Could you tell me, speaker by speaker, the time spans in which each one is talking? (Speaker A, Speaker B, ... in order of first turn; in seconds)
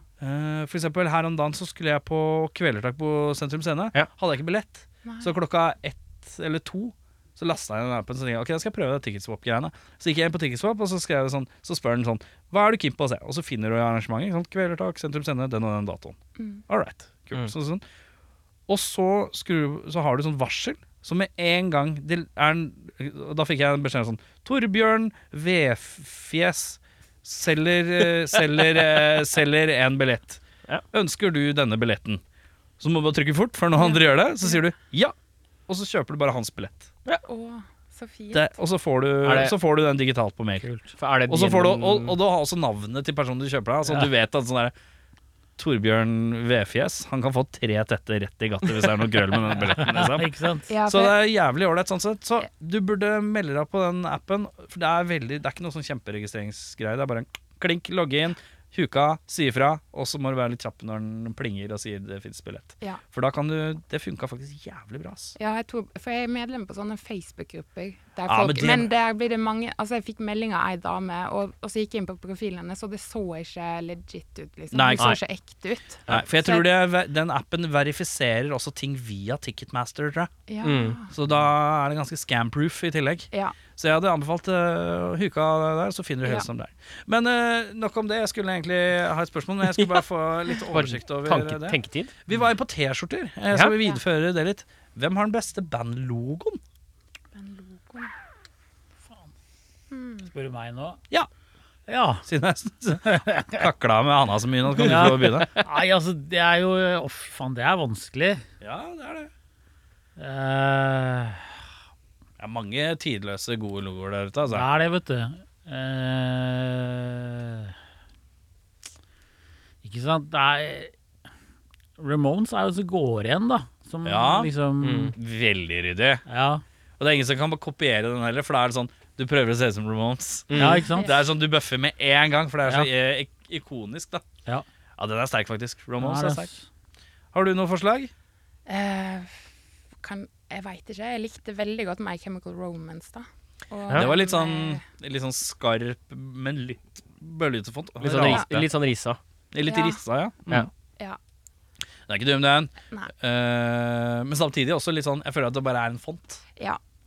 Speaker A: 0.2-16.2, 16.7-17.8, 18.7-30.4, 30.9-32.2, 32.8-35.1, 35.7-36.9, 38.3-40.6, 41.3-44.7, 45.6-65.3, 68.3-68.9, 74.7-75.1, 76.1-80.3, 81.1-96.6, 102.3-105.6, 108.6-109.3, 112.4-114.7, 124.0-124.5, 125.2-126.2, 127.0-134.2, 135.0-136.5, 137.3-138.1, 143.9-148.7, 149.5-150.7, 152.1-156.4
Speaker B: 5.0-5.3, 16.4-16.6, 33.8-34.6, 37.2-38.5, 50.7-51.2, 65.4-76.7, 80.5-81.1, 97.3-98.1, 99.9-100.3, 131.0-131.2, 138.7-139.4, 140.0-144.8, 149.7-150.0
Speaker C: 39.2-39.5, 41.0-42.2, 80.6-81.0, 89.7-92.1, 124.8-125.1, 130.5-130.9, 148.0-149.2
Speaker D: 40.6-40.9, 49.8-50.7, 100.3-101.0, 101.9-102.2, 103.1-103.7, 104.8-108.4, 110.2-111.5, 114.5-117.7, 119.8-120.9, 122.0-125.1, 126.3-126.6, 130.5-131.1, 136.0-136.7